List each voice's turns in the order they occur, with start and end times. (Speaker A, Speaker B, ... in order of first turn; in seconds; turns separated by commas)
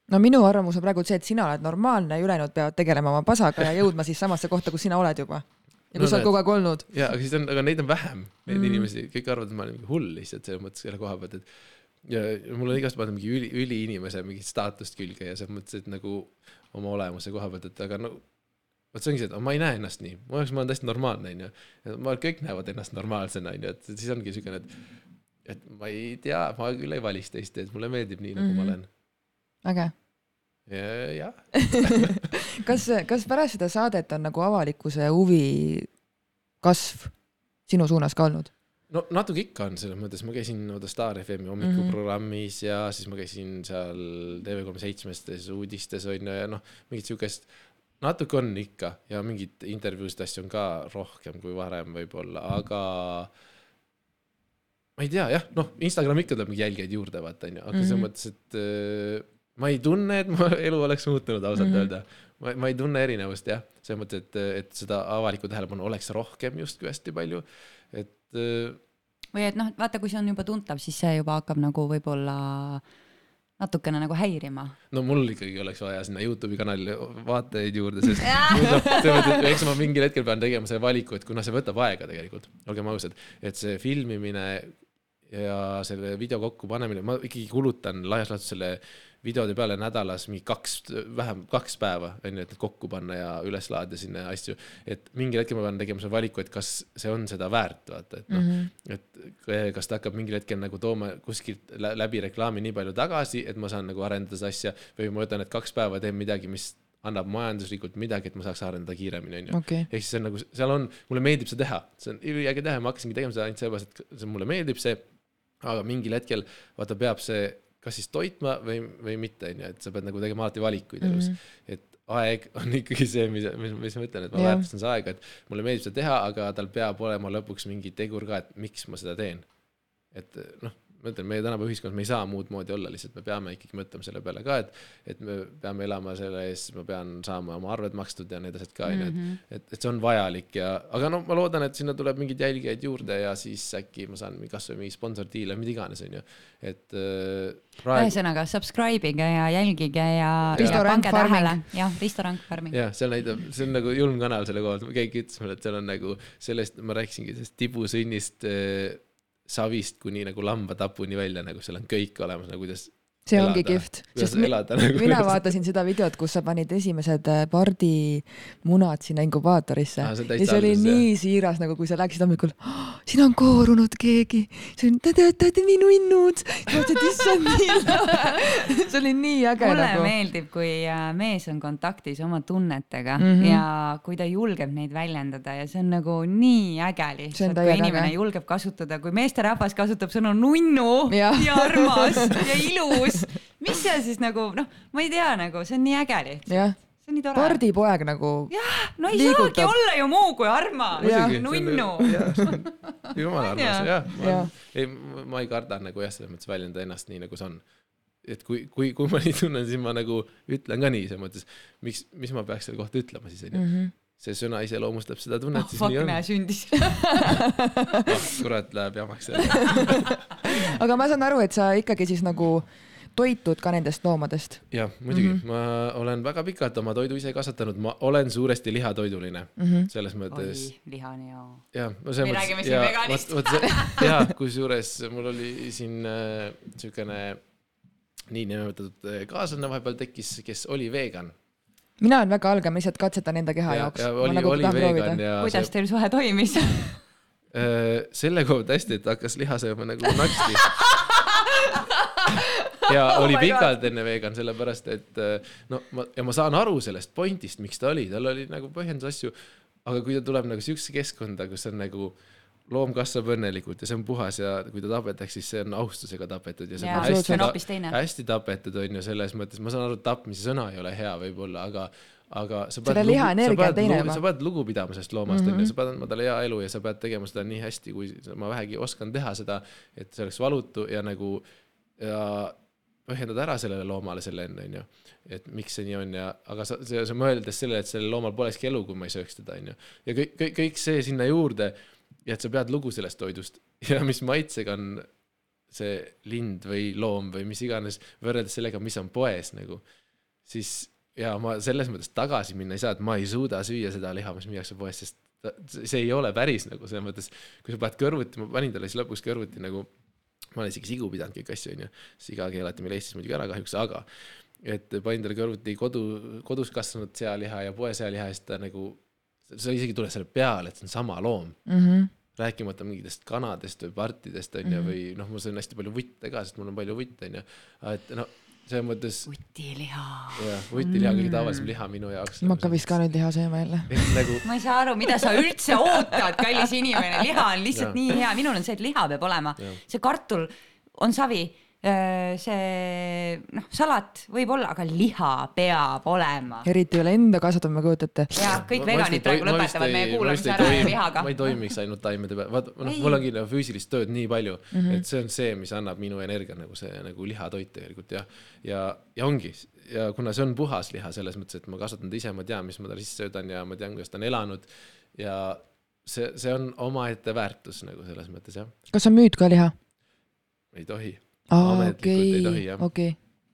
Speaker A: 0.1-6.9, Speaker B: 6.0-11.5, Speaker A: 8.5-8.9, Speaker B: 12.0-18.2, Speaker B: 18.9-24.8, Speaker B: 25.4-28.9, Speaker A: 28.4-28.8, Speaker A: 29.6-29.9, Speaker B: 30.7-32.2, Speaker A: 31.7-35.9, Speaker A: 36.6-37.1, Speaker A: 37.7-38.5, Speaker B: 38.9-47.5, Speaker A: 41.6-42.0, Speaker B: 48.0-53.3, Speaker B: 55.0-68.8, Speaker A: 57.7-58.0, Speaker A: 61.6-61.9, Speaker C: 69.3-72.8, Speaker C: 73.6-74.8, Speaker B: 74.9-115.0, Speaker C: 78.2-79.6, Speaker A: 98.3-98.7, Speaker A: 109.5-109.9, Speaker B: 115.6-129.5, Speaker A: 121.0-121.4, Speaker A: 124.3-124.7, Speaker B: 130.1-148.1, Speaker C: 138.9-139.4, Speaker C: 147.9-152.8, Speaker B: 150.5-150.8, Speaker A: 150.5-151.6, Speaker B: 152.7-165.5, Speaker A: 163.3-180.1, Speaker B: 170.0-171.1, Speaker C: 177.7-178.1, Speaker C: 179.6-197.6, Speaker A: 183.2-183.6, Speaker A: 187.3-188.1, Speaker A: 191.1-193.2, Speaker A: 196.5-196.8, Speaker A: 197.3-198.5, Speaker C: 198.5-203.9, Speaker A: 199.1-199.7, Speaker B: 201.0-207.6, Speaker A: 201.0-201.4, Speaker A: 202.1-202.5, Speaker A: 204.2-204.5, Speaker B: 208.2-216.2, Speaker A: 213.5-213.9, Speaker C: 215.5-217.4, Speaker A: 217.1-218.0, Speaker B: 218.0-220.6, Speaker A: 219.8-225.4, Speaker B: 224.7-230.7, Speaker A: 229.6-229.9, Speaker C: 230.3-231.7, Speaker B: 231.7-237.4, Speaker C: 232.2-234.1, Speaker B: 238.3-241.3, Speaker A: 242.0-245.2, Speaker B: 243.7-245.7, Speaker C: 245.4-247.0, Speaker B: 247.5-250.9, Speaker C: 250.3-253.7, Speaker B: 252.3-262.1, Speaker B: 262.7-281.4, Speaker C: 266.8-268.0, Speaker A: 266.9-267.4, Speaker A: 272.9-274.2, Speaker A: 275.3-275.7, Speaker B: 282.0-295.1, Speaker B: 295.7-299.8, Speaker B: 300.4-309.9, Speaker B: 310.5-321.7, Speaker A: 321.7-322.1, Speaker B: 322.4-329.3, Speaker C: 329.3-331.7, Speaker B: 330.4-332.9, Speaker A: 332.4-334.4, Speaker B: 333.9-334.5, Speaker C: 334.4-346.7, Speaker B: 337.7-338.0, Speaker A: 346.6-348.3, Speaker C: 348.3-351.5, Speaker B: 348.5-368.7, Speaker C: 352.8-353.2, Speaker A: 354.7-355.0, Speaker A: 368.9-369.8, Speaker B: 370.7-372.9, Speaker A: 371.5-373.2